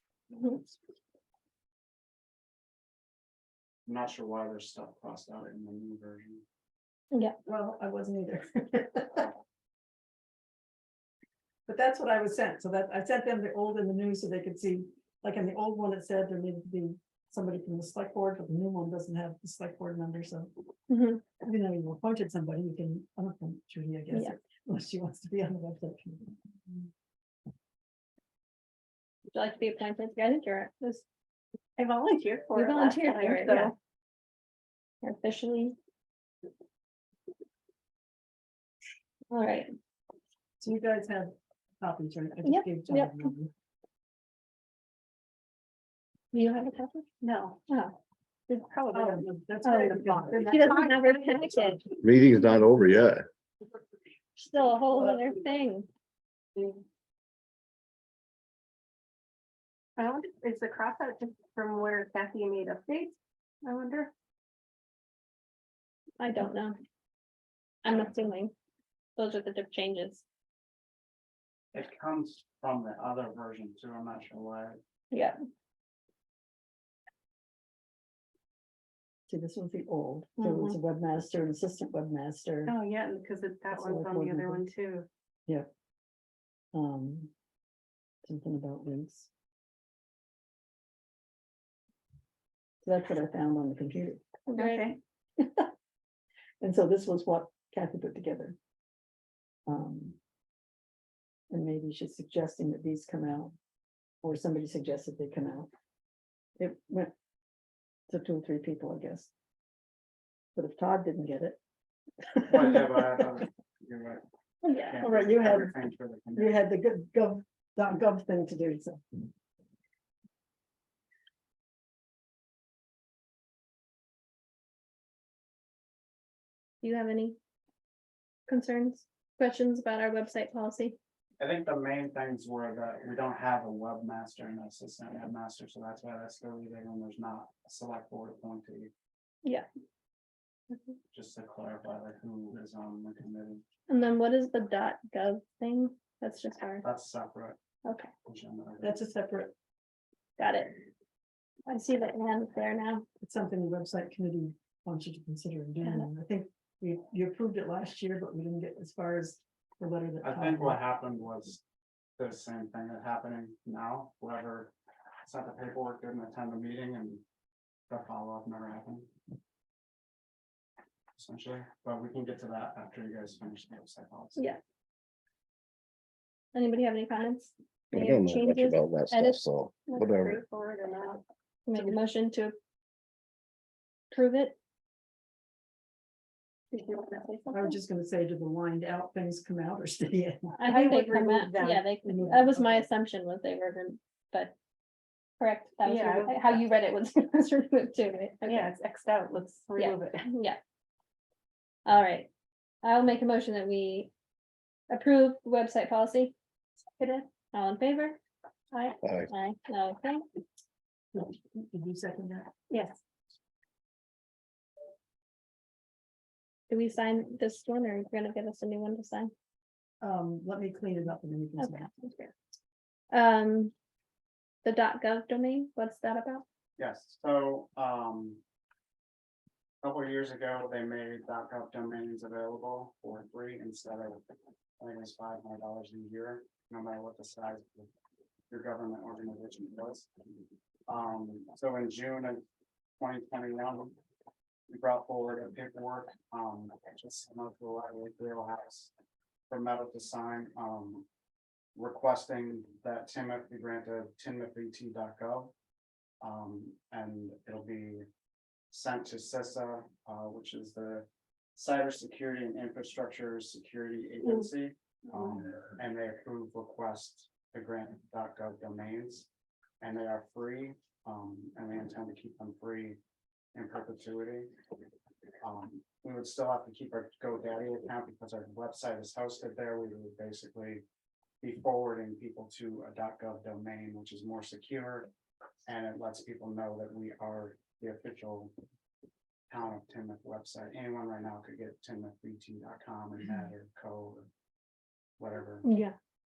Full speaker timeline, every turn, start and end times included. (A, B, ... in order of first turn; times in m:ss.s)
0:03.8-0:06.4 A
0:07.5-0:09.3 B
0:11.7-0:20.5 B
0:20.9-0:21.2 C
0:21.4-0:26.8 B
0:29.3-0:31.0 C
0:31.8-0:33.7 D
0:32.5-0:33.7 C
0:35.0-0:35.8 C
0:39.3-0:39.7 C
0:40.6-0:43.5 B
0:42.4-0:43.3 C
0:46.3-0:47.1 C
0:47.2-0:47.6 D
0:47.7-0:47.9 C
0:48.5-0:51.7 D
0:48.9-0:50.7 B
0:49.6-0:49.9 C
0:50.4-0:51.8 C
0:52.0-0:53.2 E
0:54.4-0:55.9 C
1:00.0-1:04.1 D
1:06.2-1:06.8 C
1:07.8-1:08.5 C
1:09.2-1:10.2 C
1:11.7-1:14.8 A
1:15.1-1:15.4 C
1:19.3-1:22.8 B
1:20.4-1:20.8 C
1:22.6-1:25.1 D
1:23.7-1:24.6 B
1:26.7-1:27.3 B
1:28.2-1:29.3 B
1:32.8-1:34.2 B
1:34.5-1:34.9 C
1:34.6-1:35.0 D
1:35.4-1:35.7 B
1:36.6-1:38.6 B
1:39.7-1:40.2 B
1:41.5-1:43.5 B
1:44.2-1:45.7 B
1:46.6-1:47.1 B
1:48.1-1:49.3 B
1:50.5-1:51.6 B
1:52.3-1:53.2 B
1:52.5-1:56.6 A
1:54.6-1:55.0 C
1:55.0-1:55.8 B
1:56.3-1:59.3 B
2:06.8-2:07.4 C
2:08.5-2:11.0 C
2:11.4-2:18.9 A
2:21.1-2:23.6 A
2:23.9-2:26.8 C
2:26.8-2:27.6 A
2:27.8-2:28.1 C
2:28.2-2:29.0 A
2:28.8-2:29.5 B
2:30.4-2:30.8 C
2:31.7-2:33.0 C
2:33.2-2:40.8 B
2:35.8-2:36.1 C
2:40.2-2:41.6 A
2:42.2-2:44.7 A
2:45.2-2:47.2 A
2:47.9-2:49.1 A
2:51.2-2:54.5 A
2:56.5-2:59.4 C
2:57.9-3:00.4 E
2:59.8-3:02.0 D
3:01.7-3:02.6 C
3:04.1-3:04.5 C
3:06.7-3:07.8 D
3:07.5-3:10.7 B
3:10.6-3:14.5 C
3:10.6-3:11.9 D
3:12.0-3:12.8 B
3:15.4-3:18.7 C
3:15.8-3:16.6 D
3:18.4-3:20.3 D
3:19.8-3:20.6 C
3:21.8-3:22.3 C
3:22.8-3:24.1 C
3:24.9-3:26.3 C
3:27.0-3:27.3 D
3:27.5-3:28.2 C
3:28.7-3:30.2 C
3:29.0-3:29.3 E
3:31.1-3:32.5 B
3:32.7-3:33.0 D
3:36.7-3:39.3 C
3:40.0-3:41.9 B
3:41.6-3:42.3 C
3:43.1-3:43.7 C
3:44.6-3:46.4 C
3:46.8-3:48.4 A
3:49.8-3:54.2 A
3:54.8-3:57.9 A
3:58.5-4:00.1 A
4:00.9-4:02.4 A
4:03.0-4:03.9 A
4:04.7-4:08.9 A
4:09.5-4:11.1 A
4:11.8-4:15.5 A
4:16.2-4:18.0 A
4:18.7-4:29.3 A
4:29.8-4:33.0 A
4:33.5-4:34.5 A
4:35.4-4:40.8 A
4:41.4-4:45.1 A
4:45.6-4:48.5 A
4:49.5-4:54.3 A
4:55.2-4:55.7 A
4:55.6-4:55.9 C